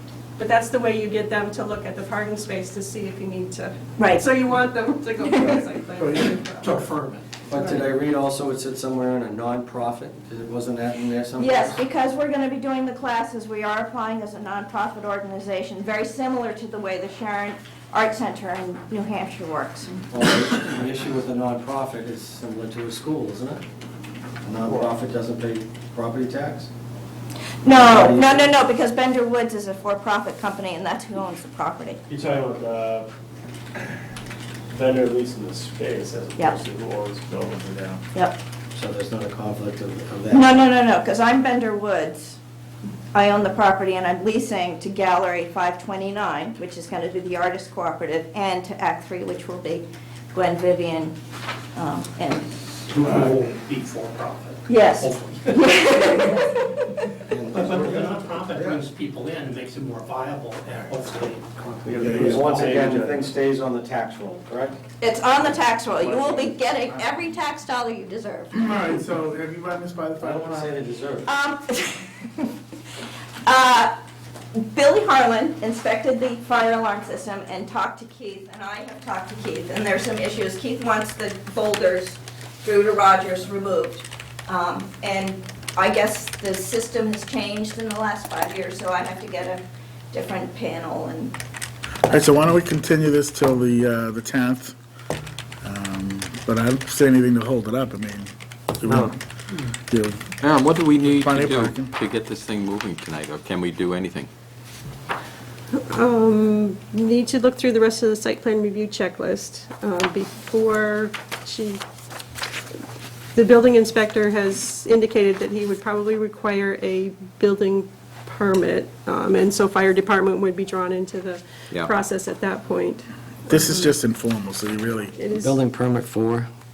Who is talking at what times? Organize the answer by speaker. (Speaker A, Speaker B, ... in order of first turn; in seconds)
Speaker A: 0.4-6.8, 7.6-7.9, 105.8-111.8, 113.3-123.9, 125.2-125.6
Speaker B: 4.0-4.2, 5.2-5.6, 11.4-19.9, 27.6-32.0, 40.3-42.4, 43.1-51.1, 51.8-52.5, 54.7-57.0, 65.0-68.6, 71.2-72.4, 73.5-73.9, 74.5-91.3
Speaker C: 6.0-6.3, 62.0-62.4, 68.5-70.8, 92.1-94.8, 95.6-99.2, 99.9-100.3, 101.0-102.0, 123.5-125.1
Speaker D: 6.6-7.3, 52.9-56.3, 57.5-61.5
Speaker E: 7.5-11.8, 20.1-23.6, 24.4-26.7, 27.7-28.5, 38.7-40.6, 57.3-58.8, 61.8-64.8, 70.2-71.3, 98.9-99.1, 125.3-126.5
Speaker F: 24.6-24.9, 32.1-33.1, 34.7-38.0, 61.9-63.3, 66.0-66.5
Speaker G: 100.4-104.3